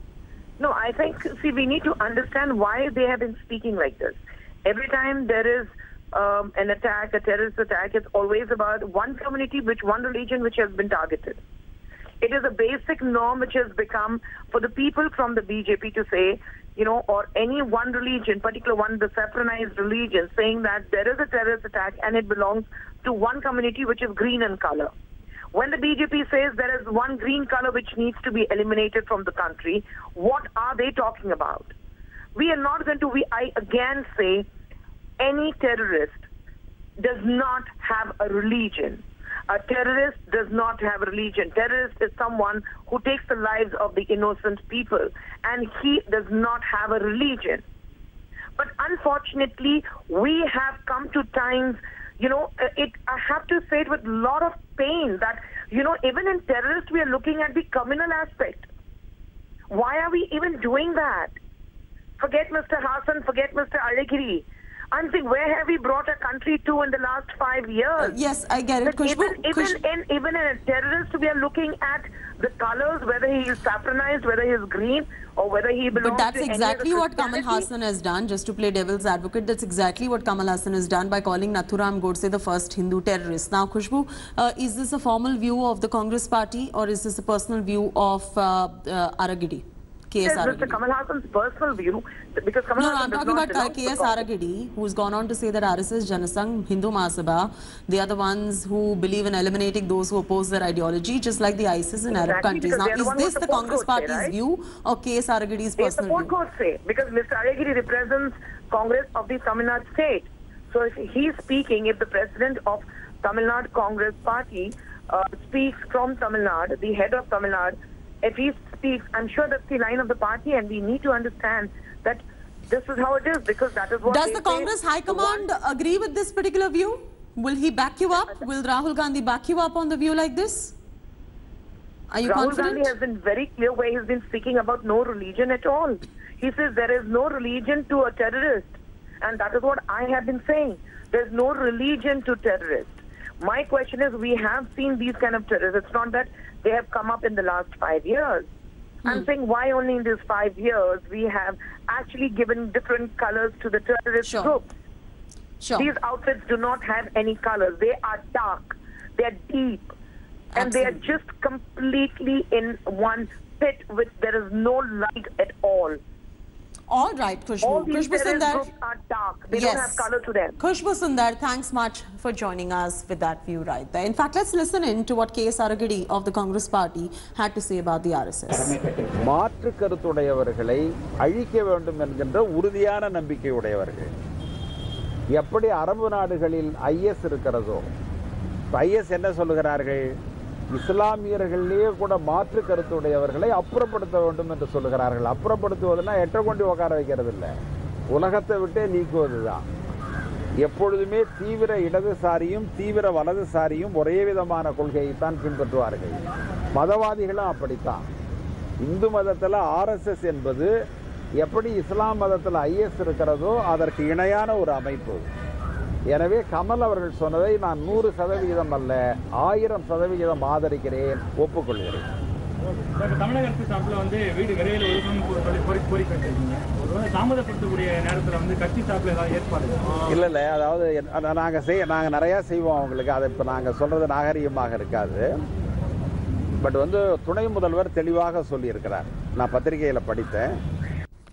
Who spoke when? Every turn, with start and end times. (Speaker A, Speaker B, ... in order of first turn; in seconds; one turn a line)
Speaker A: 0.6-11.4
Speaker A: 12.2-24.9
Speaker A: 25.5-31.7
Speaker A: 32.4-34.5
Speaker A: 35.2-36.2
Speaker A: 37.0-47.6
Speaker A: 48.6-58.7
Speaker A: 59.7-61.4
Speaker A: 62.2-68.2
Speaker B: 68.0-69.8
Speaker A: 68.8-77.7
Speaker B: 75.9-90.8
Speaker A: 90.2-94.2
Speaker B: 92.8-106.3
Speaker A: 102.1-104.3
Speaker A: 105.8-125.5
Speaker B: 124.0-130.7
Speaker B: 132.1-132.9
Speaker A: 132.2-148.5
Speaker A: 149.0-154.7
Speaker B: 154.2-154.5
Speaker B: 155.6-155.9
Speaker A: 155.7-159.9
Speaker B: 160.5-161.0
Speaker A: 160.6-166.0
Speaker B: 166.9-168.7
Speaker A: 167.6-170.6
Speaker B: 169.5-170.1
Speaker B: 170.6-178.8
Speaker C: 179.1-184.1
Speaker C: 185.3-187.8
Speaker C: 188.7-190.0
Speaker C: 190.7-197.5
Speaker C: 198.1-199.6
Speaker C: 200.6-206.2
Speaker C: 206.7-208.0
Speaker C: 208.8-210.7
Speaker C: 211.4-215.3
Speaker C: 216.1-222.0
Speaker D: 222.9-230.0
Speaker C: 230.1-235.3
Speaker C: 236.6-240.5